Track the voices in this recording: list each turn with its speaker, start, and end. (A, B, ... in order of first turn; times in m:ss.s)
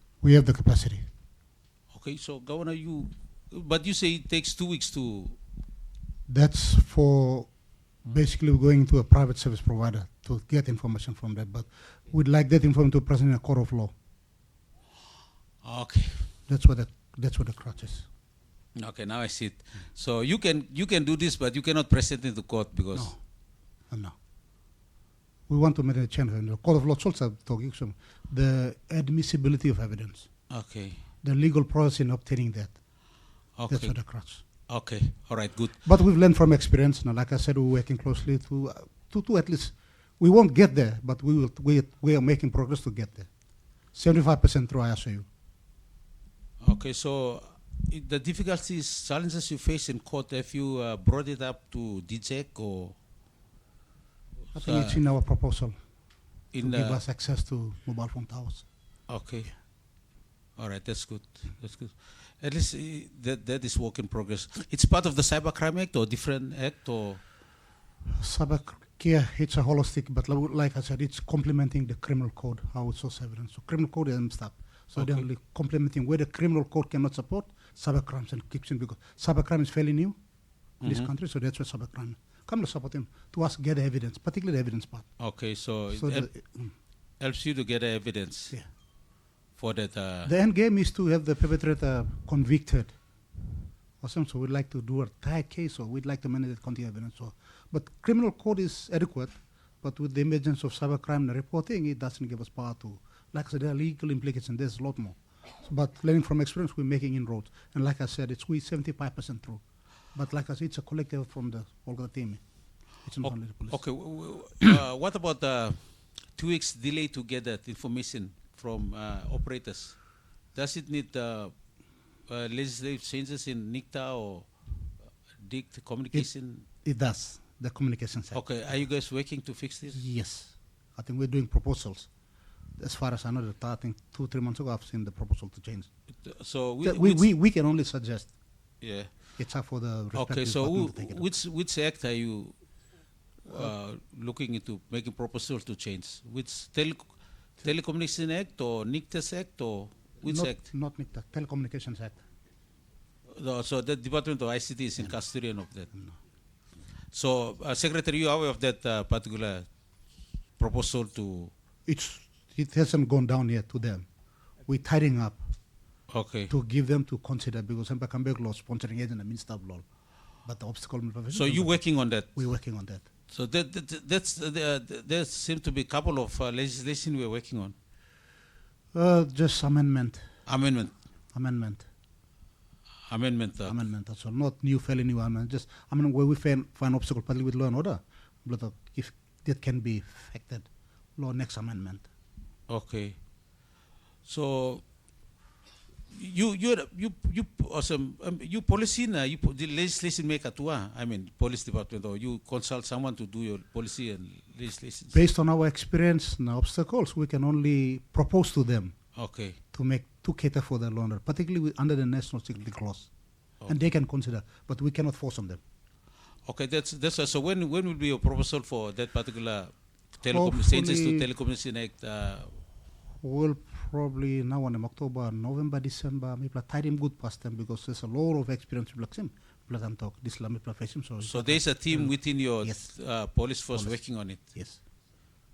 0:00.2-0:01.1 A
0:01.9-0:05.4 B
0:06.3-0:13.9 A
0:15.6-0:16.3 B
0:16.5-0:18.1 A
0:18.8-0:23.1 B
0:22.9-0:23.2 A
0:23.9-0:24.2 A
0:25.5-0:30.3 A
0:30.5-0:31.0 B
0:31.2-0:32.8 A
0:33.6-0:35.9 B
0:33.7-0:34.4 A
0:35.8-0:43.3 A
0:43.9-0:45.3 A
0:46.6-0:53.0 B
0:54.5-0:55.0 B
0:54.5-0:55.8 A
0:56.5-0:57.0 B
0:56.6-0:58.7 A
0:59.1-0:59.6 B
1:00.6-1:07.2 B
1:08.2-1:20.2 A
1:15.0-1:15.2 B
1:20.8-1:21.1 B
1:20.8-1:25.2 A
1:25.2-1:26.3 B
1:25.9-1:26.7 A
1:27.2-1:28.6 B
1:29.6-1:30.3 B
1:30.3-1:32.9 A
1:34.0-1:49.6 A
1:50.1-1:52.4 A
1:53.0-1:53.8 A
1:53.2-2:01.5 B
2:02.3-2:04.7 B
2:05.4-2:06.7 B
2:06.8-2:08.4 A
2:08.3-2:10.0 B
2:09.9-2:12.1 A
2:12.8-2:15.9 A
2:16.2-2:17.3 B
2:16.8-2:18.4 A
2:18.8-2:19.3 B
2:19.4-2:21.3 A
2:20.1-2:22.6 B
2:23.4-2:30.6 B
2:23.5-2:23.7 A
2:30.2-2:32.2 A
2:33.3-2:35.9 B
2:35.9-2:36.2 A
2:37.1-2:39.7 B
2:40.6-2:41.5 B
2:41.8-2:44.1 A
2:44.6-2:45.5 A
2:46.1-2:46.5 B
2:46.5-2:49.8 A
2:50.4-2:53.0 A
2:51.3-2:52.5 B
2:53.3-2:57.8 B
2:58.9-3:00.3 A
3:00.5-3:00.9 B
3:01.3-3:01.9 A
3:03.1-3:03.8 B
3:03.6-3:12.1 A
3:12.7-3:13.2 B
3:14.2-3:14.8 B
3:16.1-3:25.2 B
3:25.1-3:29.0 A
3:29.2-3:29.6 B
3:29.7-3:33.1 A
3:33.7-3:35.6 A
3:36.4-3:42.6 B
3:40.3-3:41.3 A
3:43.2-3:53.0 A
3:51.2-3:54.4 B
3:53.7-3:54.8 A